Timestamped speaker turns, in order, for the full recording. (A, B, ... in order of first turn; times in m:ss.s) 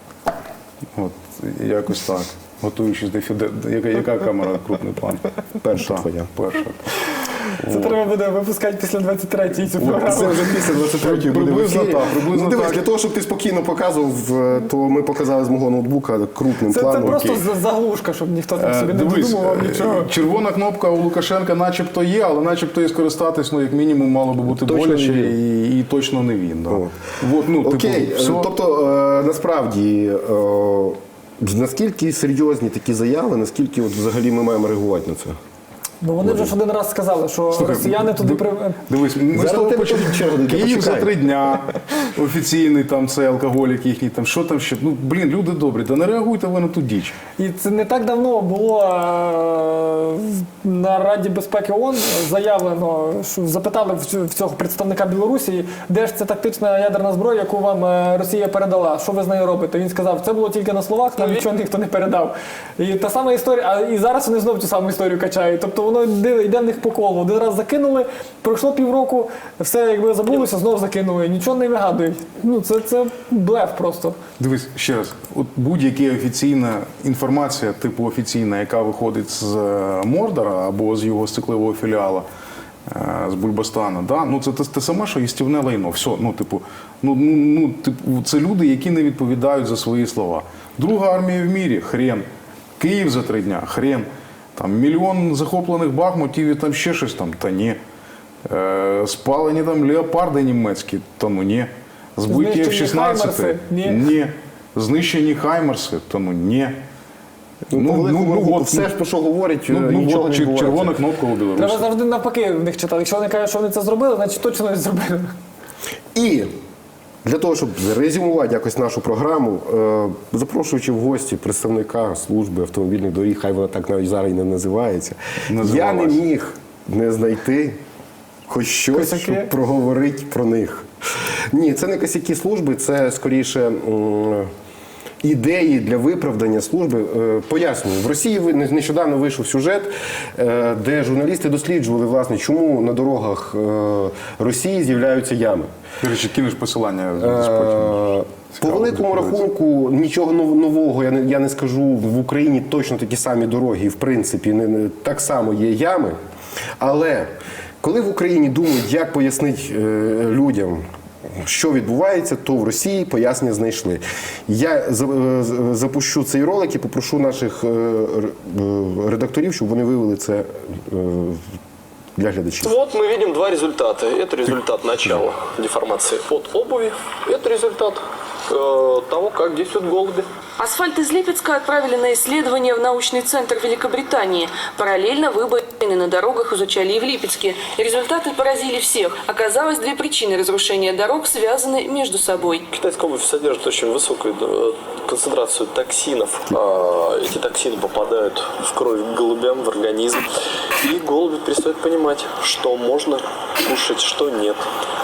0:00.9-0:08.0 A
0:05.6-0:06.3 B
0:07.6-0:10.4 C
0:09.8-0:12.8 A
0:10.0-0:17.3 B
0:16.7-0:20.1 C
0:17.0-0:17.4 A
0:18.6-0:28.5 A
0:24.5-0:25.4 B
0:26.7-0:27.0 B
0:27.6-0:35.4 B
0:36.0-0:38.8 C
0:36.2-0:36.5 B
0:37.5-0:47.2 A
0:39.3-0:41.2 B
0:47.4-1:14.2 C
1:14.4-1:22.2 A
1:22.9-1:32.2 A
1:32.8-1:37.8 A
1:38.4-1:46.8 A
1:42.3-1:44.1 C
1:47.7-1:48.9 A
1:47.7-1:51.0 B
1:49.7-1:51.8 A
1:51.6-1:55.3 C
1:56.1-1:56.5 B
1:57.2-2:07.8 B
2:05.5-2:06.2 A
2:08.5-2:10.9 B
2:08.9-2:09.5 C
2:11.5-2:14.5 B
2:15.2-2:25.7 B
2:26.0-2:29.4 A
2:27.2-2:36.2 B
2:36.8-2:37.3 B
2:37.8-2:40.8 B
2:41.3-2:51.5 B
2:52.2-2:52.7 B
2:52.6-3:00.3 D
3:00.6-3:12.7 E
3:12.7-3:24.6 D